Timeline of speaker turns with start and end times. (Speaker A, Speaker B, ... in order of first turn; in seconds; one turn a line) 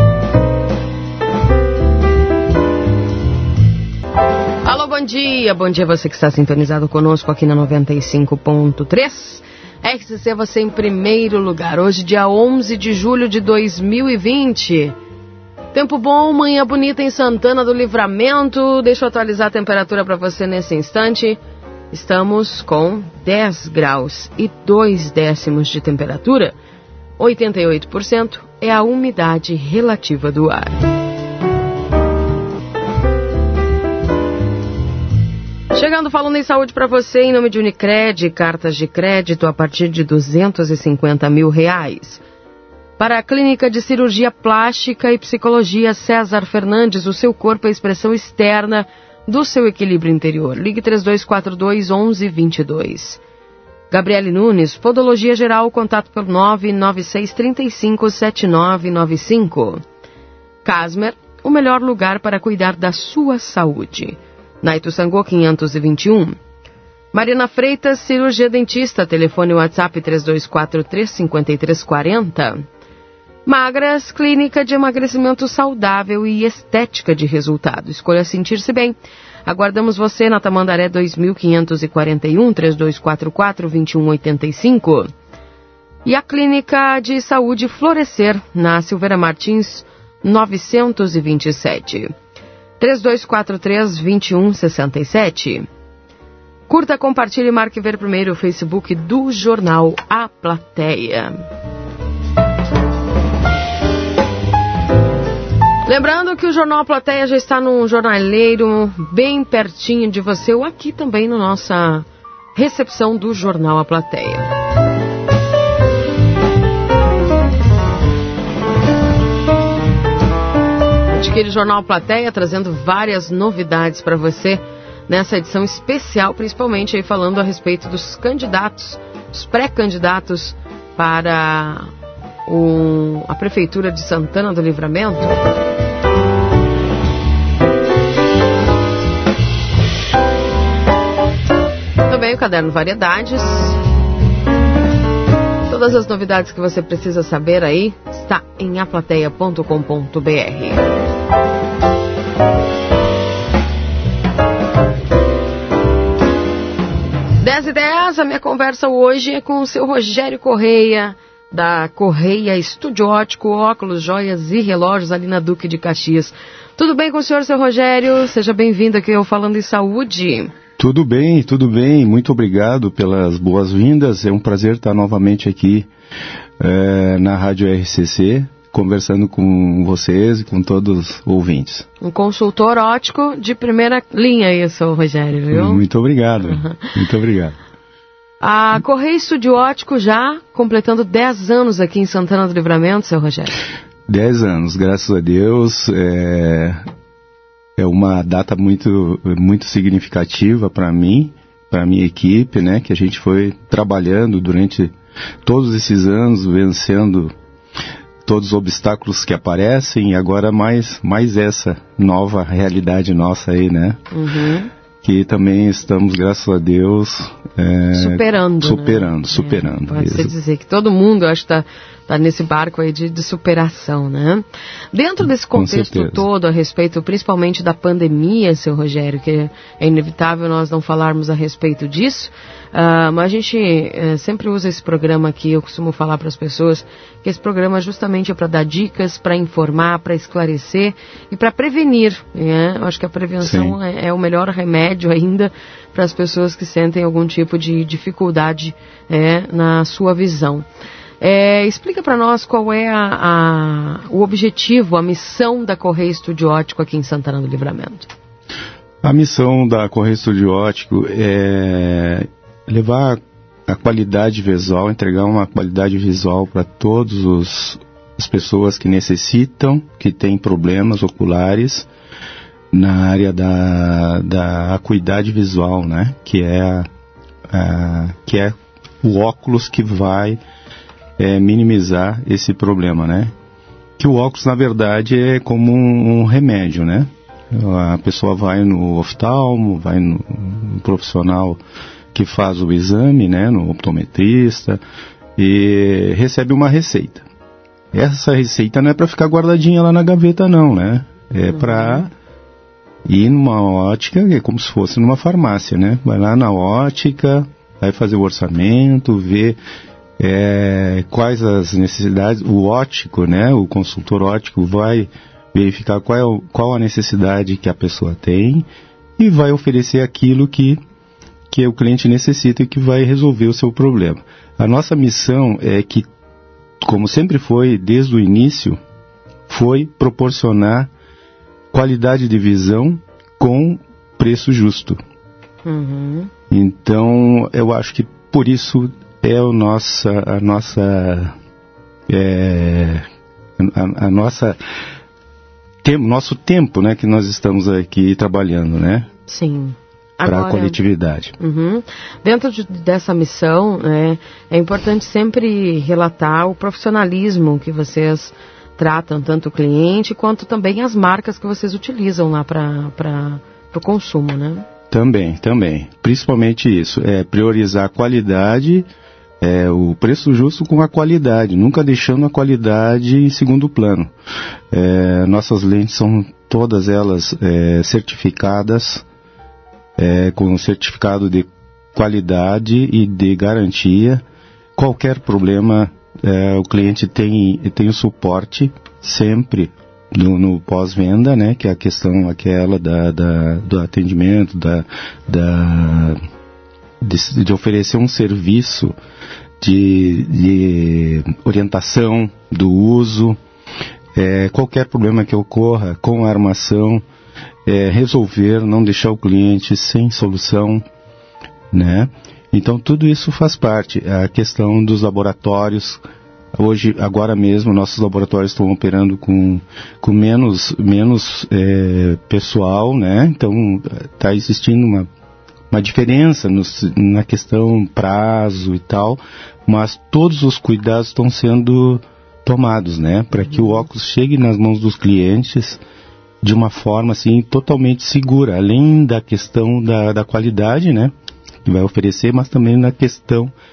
Speaker A: 4.6-14.9
Speaker A: 15.7-21.4
Speaker A: 21.9-26.5
Speaker A: 27.2-30.8
Speaker A: 35.7-42.2
Speaker A: 43.0-53.2
Speaker A: 53.9-59.8
Speaker A: 60.6-66.4
Speaker A: 67.1-72.6
Speaker A: 73.5-85.1
Speaker A: 86.0-92.1
Speaker A: 92.8-95.7
Speaker A: 96.7-101.3
Speaker A: 105.8-114.5
Speaker A: 121.1-131.9
Speaker A: 132.5-135.4
Speaker A: 142.0-143.8
Speaker A: 145.7-150.8
Speaker A: 157.4-170.5
Speaker B: 170.8-175.9
Speaker B: 176.6-181.8
Speaker A: 182.0-185.8
Speaker B: 185.5-187.6
Speaker A: 186.4-186.9
Speaker A: 188.4-193.6
Speaker B: 194.1-196.8
Speaker B: 197.8-204.9
Speaker B: 205.4-207.3
Speaker B: 208.2-214.0
Speaker A: 214.1-214.7
Speaker B: 215.0-220.3
Speaker A: 217.9-250.7
Speaker B: 225.5-226.2
Speaker B: 243.4-243.8
Speaker A: 251.2-258.1
Speaker B: 259.0-271.9
Speaker B: 272.7-276.9
Speaker B: 277.5-280.4
Speaker B: 281.2-283.3
Speaker B: 284.0-291.6
Speaker B: 292.1-294.8
Speaker B: 295.4-297.2
Speaker B: 297.9-302.1
Speaker A: 301.5-302.1
Speaker B: 303.1-309.6
Speaker B: 310.2-318.6
Speaker B: 319.2-320.8
Speaker B: 321.5-326.1
Speaker B: 326.8-328.8
Speaker B: 329.5-330.9
Speaker B: 331.7-335.0
Speaker A: 335.6-336.3
Speaker B: 336.5-341.3
Speaker B: 342.1-343.0
Speaker B: 343.6-344.6
Speaker B: 345.8-349.1
Speaker A: 349.3-350.8
Speaker B: 350.2-351.3
Speaker A: 351.4-364.6
Speaker B: 364.9-368.9
Speaker B: 369.4-374.1
Speaker B: 374.7-379.0
Speaker B: 380.0-384.2
Speaker B: 384.8-396.2
Speaker B: 397.0-398.9
Speaker B: 399.6-403.4
Speaker B: 404.1-407.0
Speaker B: 407.6-410.8
Speaker B: 411.7-416.0
Speaker B: 416.5-425.1
Speaker B: 425.7-435.8
Speaker B: 436.4-441.1
Speaker B: 441.6-443.5